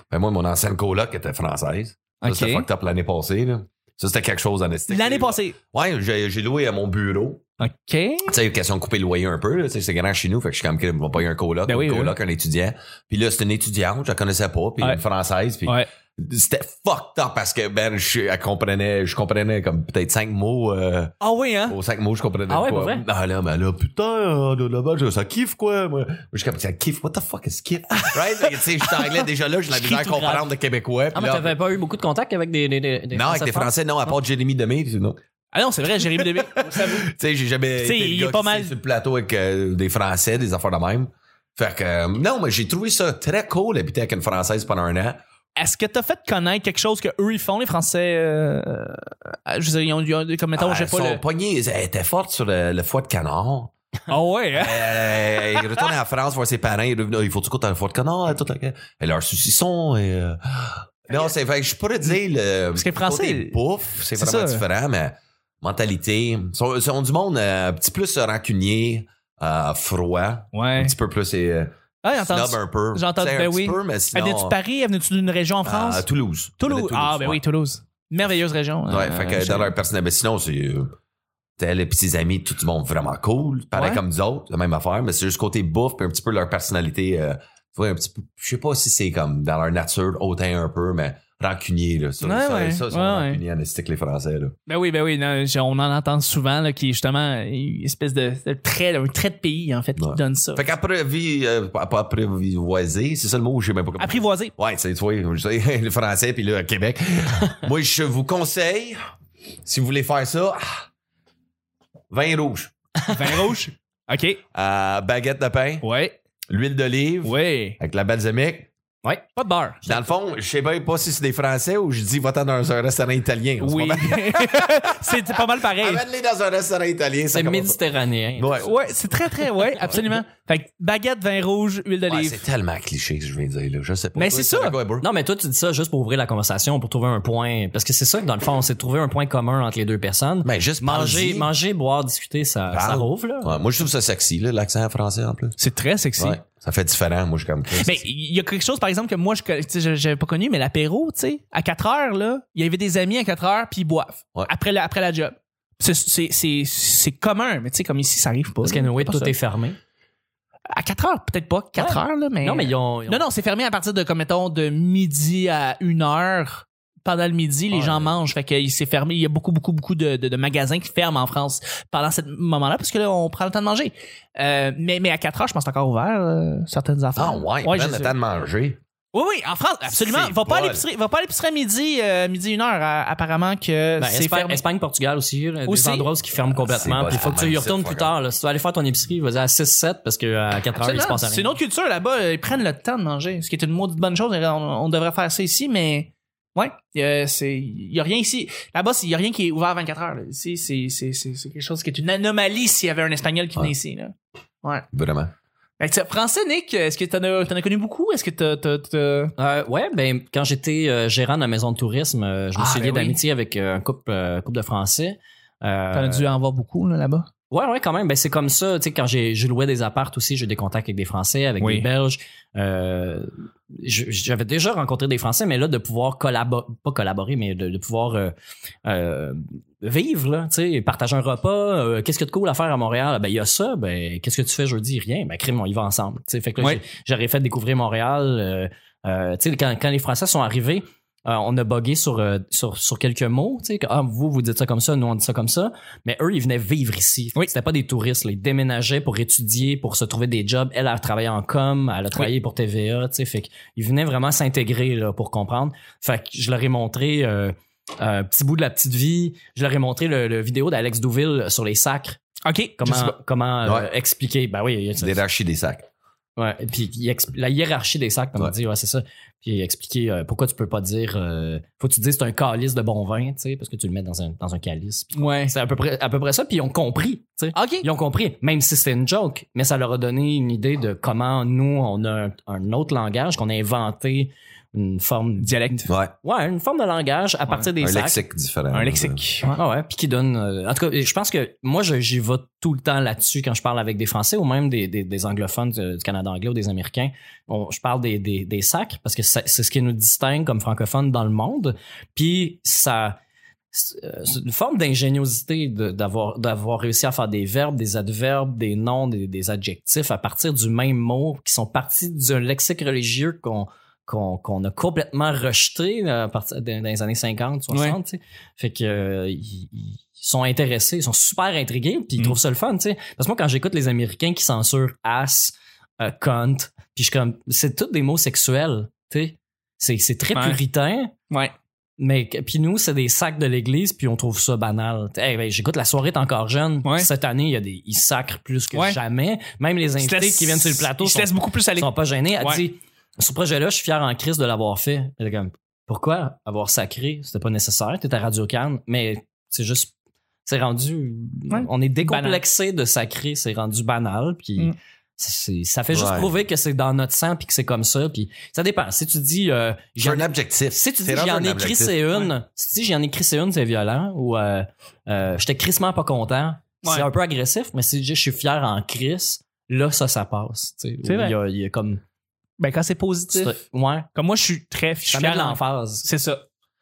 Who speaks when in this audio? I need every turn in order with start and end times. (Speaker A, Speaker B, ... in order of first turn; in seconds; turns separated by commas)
Speaker A: 0.1-7.4, Speaker B: 2.2-2.7, Speaker B: 4.9-5.6, Speaker B: 7.6-8.3, Speaker A: 8.3-21.1, Speaker B: 11.7-12.2, Speaker B: 21.2-21.8, Speaker A: 21.7-31.6, Speaker C: 22.5-23.0, Speaker B: 28.0-30.5, Speaker C: 31.1-33.7, Speaker A: 33.1-35.2, Speaker B: 35.5-37.1, Speaker A: 36.1-45.2, Speaker B: 37.8-38.7, Speaker B: 45.6-51.2, Speaker A: 50.6-53.7, Speaker B: 54.1-55.8, Speaker A: 54.5-74.6, Speaker B: 62.8-64.7, Speaker B: 70.5-70.9, Speaker B: 72.0-76.1, Speaker A: 75.7-77.4, Speaker B: 76.6-79.7, Speaker A: 78.9-81.0, Speaker A: 81.6-94.5, Speaker B: 83.8-84.0, Speaker B: 92.2-93.4, Speaker B: 94.7-100.7, Speaker A: 100.0-109.0, Speaker B: 104.0-104.5, Speaker A: 109.6-110.8, Speaker A: 112.1-112.7, Speaker B: 113.1-114.4, Speaker A: 114.5-115.8, Speaker B: 115.8-116.2, Speaker A: 116.5-118.7, Speaker B: 117.2-117.8, Speaker B: 119.4-119.8, Speaker A: 119.8-127.8, Speaker B: 123.6-126.0, Speaker C: 127.3-128.7, Speaker A: 128.4-129.1, Speaker B: 128.6-132.4, Speaker A: 129.7-130.1, Speaker A: 132.1-135.1, Speaker B: 134.2-134.8, Speaker C: 135.0-143.6, Speaker A: 140.4-141.5, Speaker A: 142.7-145.6, Speaker B: 145.6-146.4, Speaker A: 146.2-148.0, Speaker B: 147.8-159.4, Speaker C: 158.6-159.8, Speaker B: 160.7-178.1, Speaker C: 161.8-163.3, Speaker A: 167.7-168.1, Speaker A: 177.2-178.8, Speaker B: 179.1-184.6, Speaker A: 179.9-180.8, Speaker C: 184.0-191.6, Speaker B: 185.7-186.1, Speaker A: 186.5-188.1, Speaker B: 190.8-204.9, Speaker A: 204.9-205.3, Speaker B: 205.8-209.3, Speaker C: 209.4-216.2, Speaker B: 212.6-213.2, Speaker B: 215.9-217.3, Speaker C: 217.5-228.3, Speaker B: 221.6-221.9, Speaker C: 228.8-262.2, Speaker B: 262.4-263.1, Speaker C: 262.8-265.2, Speaker A: 265.0-265.9, Speaker C: 266.4-288.2, Speaker B: 275.2-275.5, Speaker B: 277.6-277.9, Speaker B: 285.4-285.9, Speaker A: 285.9-286.1, Speaker A: 287.8-289.2, Speaker B: 288.7-289.6, Speaker C: 289.5-303.2, Speaker C: 303.7-331.1, Speaker B: 317.7-318.0, Speaker C: 332.0-349.9, Speaker B: 340.0-342.6, Speaker C: 350.4-372.0, Speaker B: 351.5-352.4, Speaker A: 355.9-356.3, Speaker A: 360.0-362.1, Speaker B: 371.1-371.4, Speaker B: 372.6-373.6, Speaker C: 373.3-374.1, Speaker B: 374.1-376.4, Speaker C: 375.1-376.1